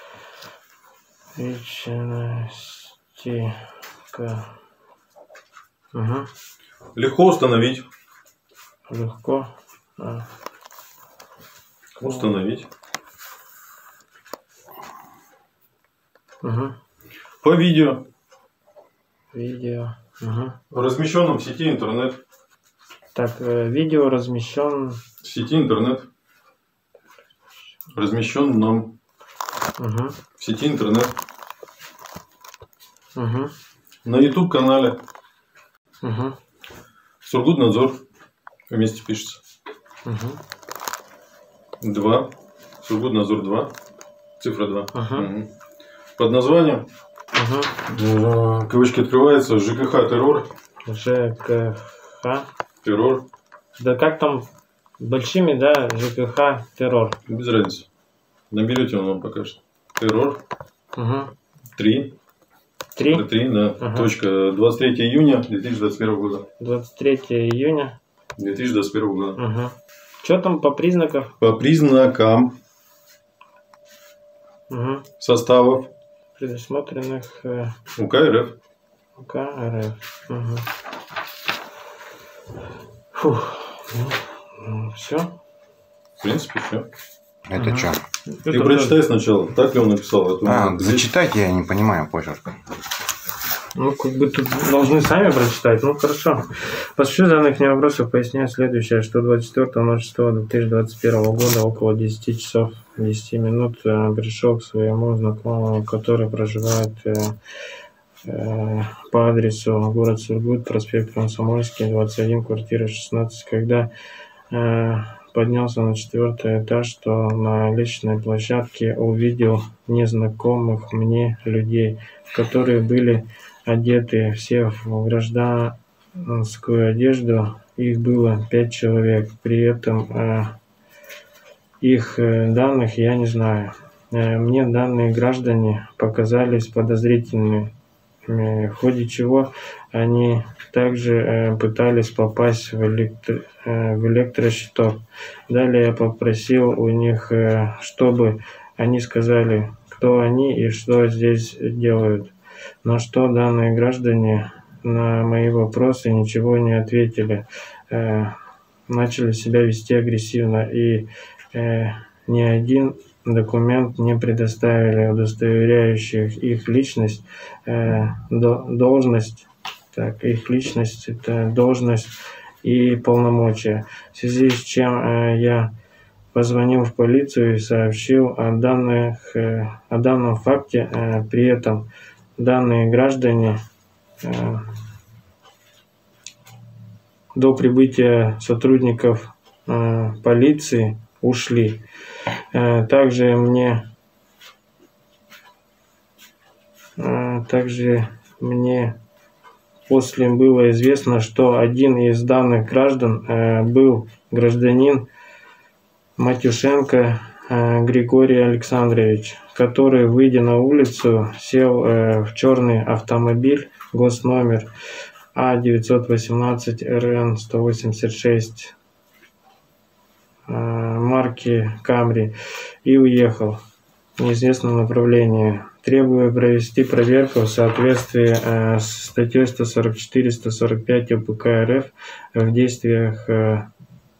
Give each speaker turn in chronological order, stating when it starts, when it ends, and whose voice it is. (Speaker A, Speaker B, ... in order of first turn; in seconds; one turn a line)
Speaker A: 1.4-4.5
Speaker A: 5.9-6.3
Speaker B: 7.0-7.9
Speaker A: 8.9-10.3
Speaker B: 12.0-12.7
Speaker A: 12.0-12.3
Speaker A: 16.4-16.8
Speaker B: 17.4-18.0
Speaker A: 19.3-20.6
Speaker B: 20.7-22.2
Speaker A: 23.1-25.0
Speaker B: 25.2-26.1
Speaker B: 27.9-28.9
Speaker A: 29.8-30.2
Speaker B: 30.4-31.1
Speaker A: 33.2-33.5
Speaker B: 34.0-35.0
Speaker A: 36.0-36.4
Speaker B: 37.2-38.0
Speaker B: 38.7-39.4
Speaker A: 40.0-40.4
Speaker B: 41.8-42.3
Speaker B: 42.8-43.7
Speaker B: 44.4-45.5
Speaker A: 44.9-45.3
Speaker B: 46.2-46.9
Speaker A: 47.3-47.7
Speaker B: 47.9-50.5
Speaker A: 50.9-52.5
Speaker B: 52.8-53.2
Speaker A: 53.8-54.5
Speaker A: 55.0-57.2
Speaker B: 57.3-57.9
Speaker B: 58.5-60.4
Speaker A: 61.0-61.3
Speaker B: 61.8-62.1
Speaker A: 63.0-63.3
Speaker B: 63.1-66.5
Speaker A: 63.8-64.1
Speaker A: 66.6-68.0
Speaker B: 68.4-69.4
Speaker A: 69.4-71.3
Speaker B: 71.4-72.6
Speaker A: 74.7-75.1
Speaker B: 75.2-75.9
Speaker A: 76.4-77.8
Speaker B: 78.0-78.5
Speaker A: 79.2-80.7
Speaker A: 83.1-85.3
Speaker B: 86.2-86.9
Speaker C: 87.5-88.0
Speaker A: 87.5-89.0
Speaker B: 88.5-91.1
Speaker C: 90.5-92.6
Speaker A: 93.8-107.4
Speaker A: 108.2-113.9
Speaker A: 114.5-130.5
Speaker A: 131.8-137.7
Speaker A: 138.2-152.3
Speaker A: 152.8-175.7
Speaker A: 176.3-183.6
Speaker A: 184.2-184.6
Speaker A: 187.3-191.8
Speaker A: 192.5-193.8
Speaker A: 197.0-199.0
Speaker A: 199.9-205.1
Speaker A: 206.2-214.7
Speaker A: 215.3-218.7
Speaker A: 220.5-223.6
Speaker A: 224.2-233.7